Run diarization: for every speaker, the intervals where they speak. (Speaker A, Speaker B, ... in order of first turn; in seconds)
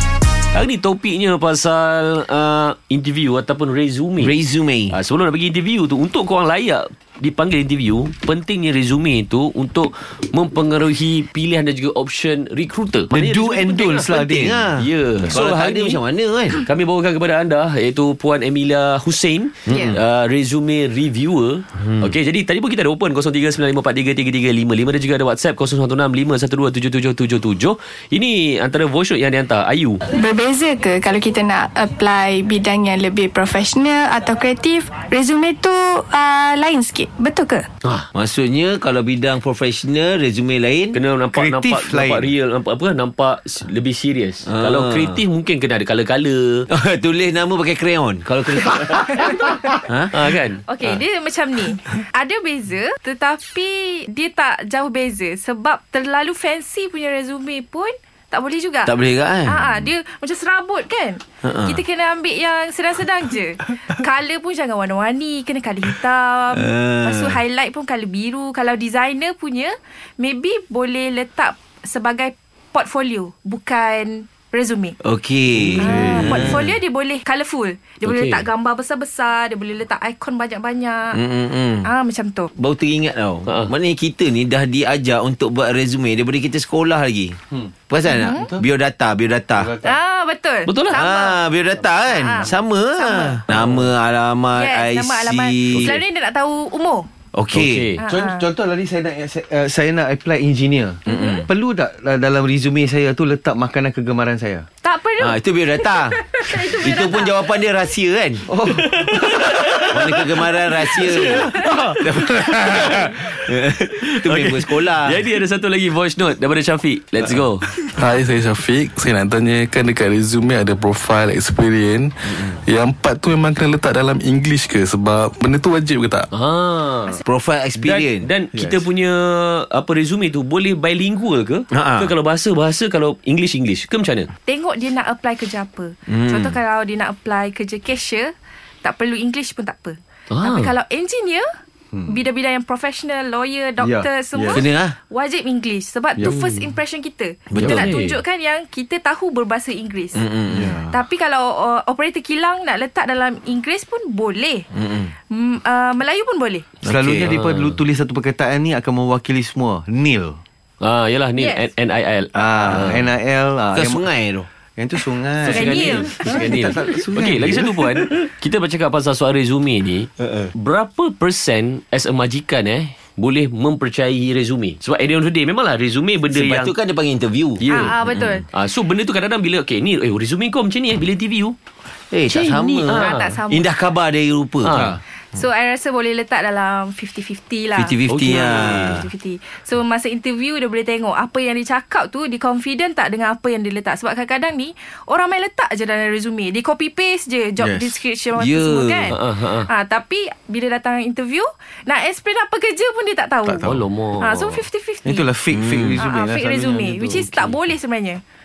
Speaker A: 0.5-4.3, 4.9-14.2, 14.7-16.0, 16.5-30.0, 40.9-46.7, 50.1-50.7, 78.0-78.4, 90.7-91.0, 93.5-93.9, 97.5-98.0, 108.8-113.2, 114.2-117.7, 126.3-127.2, 127.8-134.3, 140.3-140.7, 146.2-146.5, 147.6-148.2, 157.1-157.8, 160.8-163.0, 165.4-176.7, 177.6-181.6, 182.3-183.3, 184.6-185.0, 188.1-189.0, 199.1-199.7, 203.6-204.6
Speaker B: 4.2-5.0, 13.2-16.6, 19.7-20.0, 21.8-22.1, 38.1-41.0, 44.5-45.2, 46.7-50.2, 58.9-59.9, 61.4-61.8, 66.5-67.4, 75.0-76.7, 81.1-81.9, 82.5-87.4, 87.9-89.7, 90.9-96.0, 97.3-97.9, 101.1-101.5, 105.2-108.5, 109.9-115.2, 127.2-128.3, 131.7-132.1, 136.1-136.6, 144.5-144.9, 147.5-147.8, 150.1-150.7, 154.7-155.1, 156.8-157.3, 162.7-163.0, 163.7-164.5, 176.3-177.9, 182.1-184.9, 187.7-189.1, 198.3-199.1, 205.5-206.0
Speaker C: 13.1-14.7, 41.3-42.3, 75.7-76.5, 88.3-88.6, 89.6-90.0, 98.0-104.7, 108.5-110.2, 111.3-112.8, 143.8-144.6, 150.5-151.0, 156.8-160.4, 162.3-164.1, 164.8-168.1, 197.6-198.0, 203.4-203.8, 205.0-207.3
Speaker D: 30.1-37.6
Speaker E: 50.7-58.9, 59.4-75.0, 75.8-81.2, 81.8-82.5, 88.0-88.5, 89.8-91.4, 92.0-93.4, 94.5-97.1, 98.0-98.4, 101.1-101.4, 104.8-107.4, 134.4-141.5, 142.1-150.2, 150.9-154.7, 155.3-156.7, 161.4-161.7, 165.5-166.5, 177.7-178.4, 182.9-183.7, 185.3-203.6, 204.2-205.3, 205.9-208.2
Speaker F: 117.8-126.3